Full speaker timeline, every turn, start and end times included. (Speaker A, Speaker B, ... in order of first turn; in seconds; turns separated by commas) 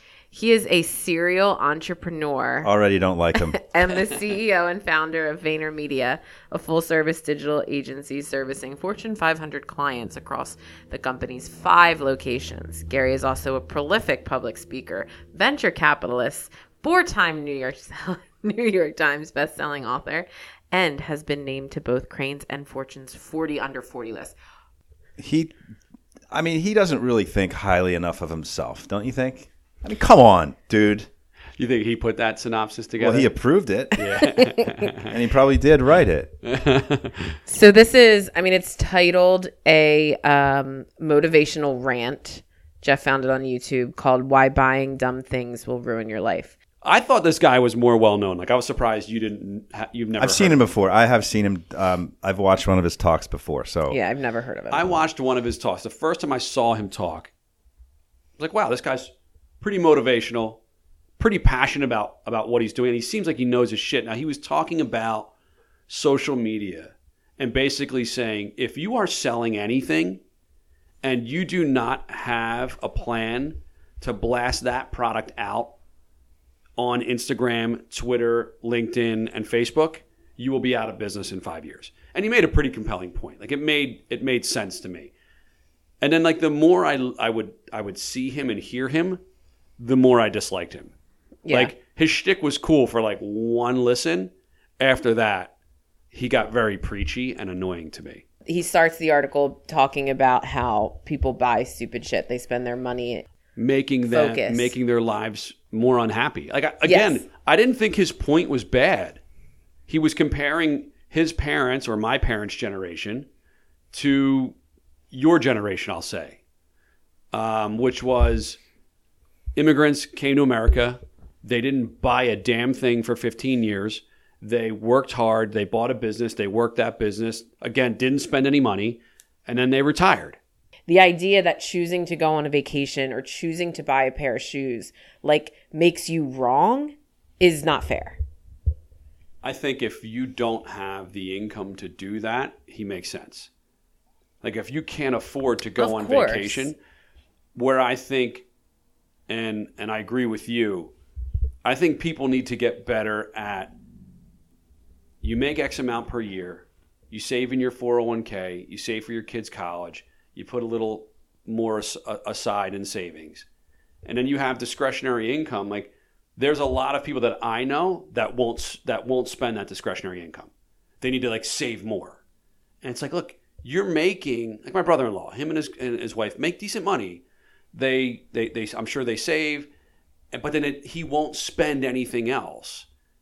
Speaker A: 0.3-2.7, Speaker B: 2.6-3.6, Speaker A: 3.4-24.3, Speaker B: 25.2-25.5, Speaker B: 26.3-31.1, Speaker C: 31.6-33.3, Speaker B: 33.0-34.0, Speaker C: 34.0-35.1, Speaker A: 34.1-34.5, Speaker B: 35.0-36.3, Speaker C: 36.4-37.4, Speaker A: 37.5-46.5, Speaker C: 46.8-50.6, Speaker B: 50.2-54.0, Speaker A: 53.9-55.1, Speaker C: 54.7-57.3, Speaker C: 58.4-60.6, Speaker C: 61.2-65.3, Speaker C: 65.9-70.2, Speaker C: 71.0-75.7, Speaker C: 76.8-85.1, Speaker C: 86.0-89.2, Speaker C: 89.8-90.9, Speaker A: 91.4-91.7, Speaker C: 91.5-95.5, Speaker C: 96.1-98.2, Speaker A: 98.5-103.2, Speaker C: 103.5-109.2, Speaker A: 104.1-104.7, Speaker A: 106.8-107.2, Speaker C: 109.9-113.3, Speaker C: 113.9-114.5, Speaker C: 115.1-116.4, Speaker C: 117.3-118.6, Speaker C: 119.5-130.4, Speaker A: 130.9-138.2, Speaker C: 139.4-143.5, Speaker C: 144.4-146.8, Speaker A: 145.8-146.7, Speaker C: 147.5-148.4, Speaker C: 149.3-150.9, Speaker C: 151.6-153.7, Speaker C: 155.2-163.4, Speaker C: 164.0-172.2, Speaker C: 172.8-179.7, Speaker C: 180.3-182.9